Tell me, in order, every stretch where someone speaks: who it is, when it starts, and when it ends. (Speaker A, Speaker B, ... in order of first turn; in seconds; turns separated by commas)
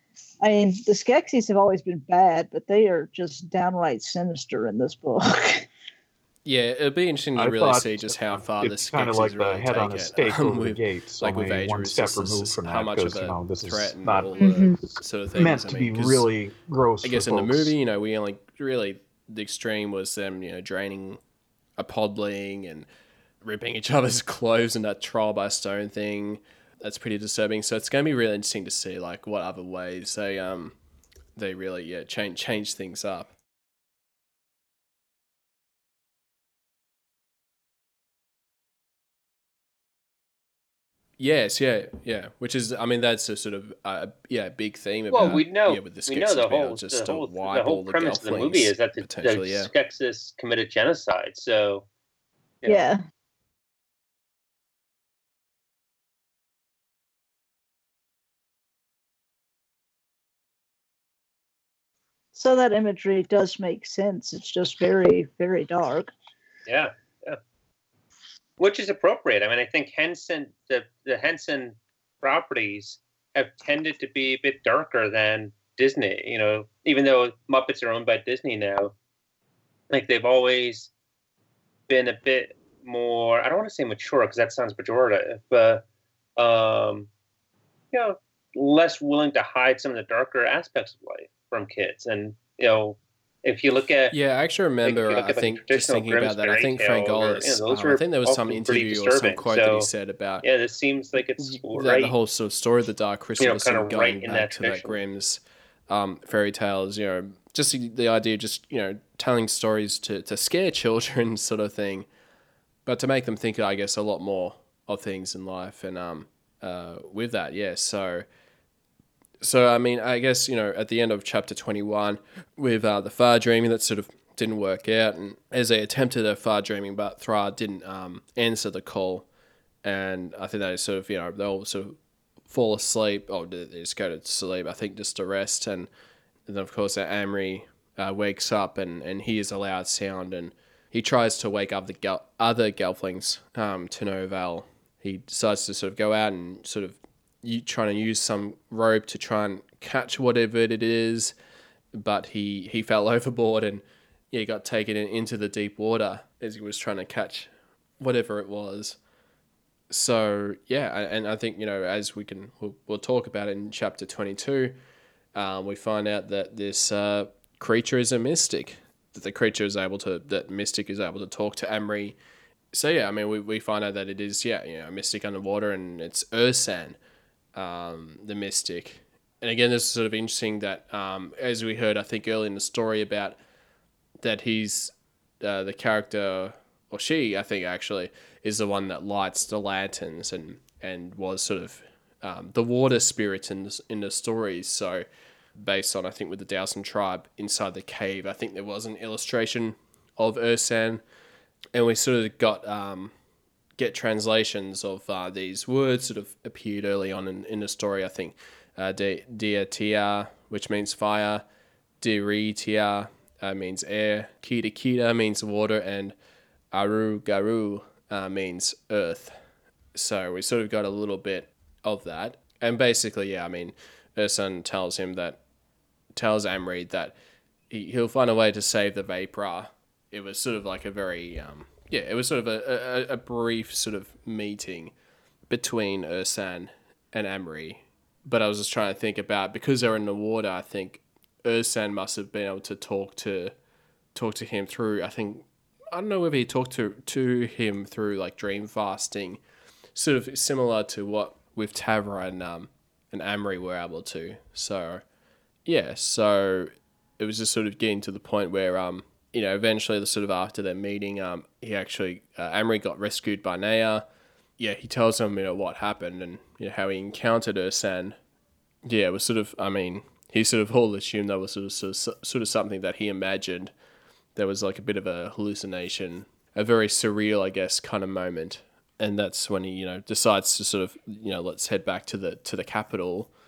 Speaker A: 0.4-5.7, Speaker B: 6.5-16.3, Speaker C: 7.4-17.7, Speaker A: 14.4-14.8, Speaker B: 17.0-21.2, Speaker B: 21.8-22.9, Speaker B: 23.4-30.8, Speaker B: 31.4-33.3, Speaker B: 41.2-49.7, Speaker D: 45.1-51.9, Speaker D: 52.6-52.9, Speaker A: 52.7-53.0, Speaker A: 62.3-66.1, Speaker D: 66.7-67.4, Speaker D: 68.6-78.9, Speaker D: 79.9-80.9, Speaker D: 81.9-85.8, Speaker D: 86.4-87.1, Speaker D: 87.9-94.1, Speaker B: 94.1-100.4, Speaker D: 94.9-99.9, Speaker D: 100.4-102.1, Speaker B: 101.5-112.1, Speaker D: 103.4-105.0, Speaker B: 112.9-118.3, Speaker B: 119.4-129.3, Speaker B: 129.8-132.0, Speaker B: 132.5-135.9, Speaker B: 136.5-151.3, Speaker B: 151.9-159.0, Speaker B: 159.9-164.8, Speaker B: 165.3-172.2, Speaker B: 172.7-177.0, Speaker B: 177.6-183.4, Speaker B: 184.2-195.1, Speaker B: 195.6-201.0, Speaker B: 201.7-203.1, Speaker B: 203.8-211.4, Speaker B: 212.0-216.2, Speaker B: 216.7-219.4, Speaker B: 219.9-225.4, Speaker B: 226.1-227.1, Speaker B: 227.7-234.9, Speaker B: 235.5-243.5, Speaker B: 244.2-249.4, Speaker B: 249.9-255.0, Speaker B: 255.7-264.1, Speaker B: 264.6-268.2, Speaker B: 268.9-273.7, Speaker B: 274.4-283.3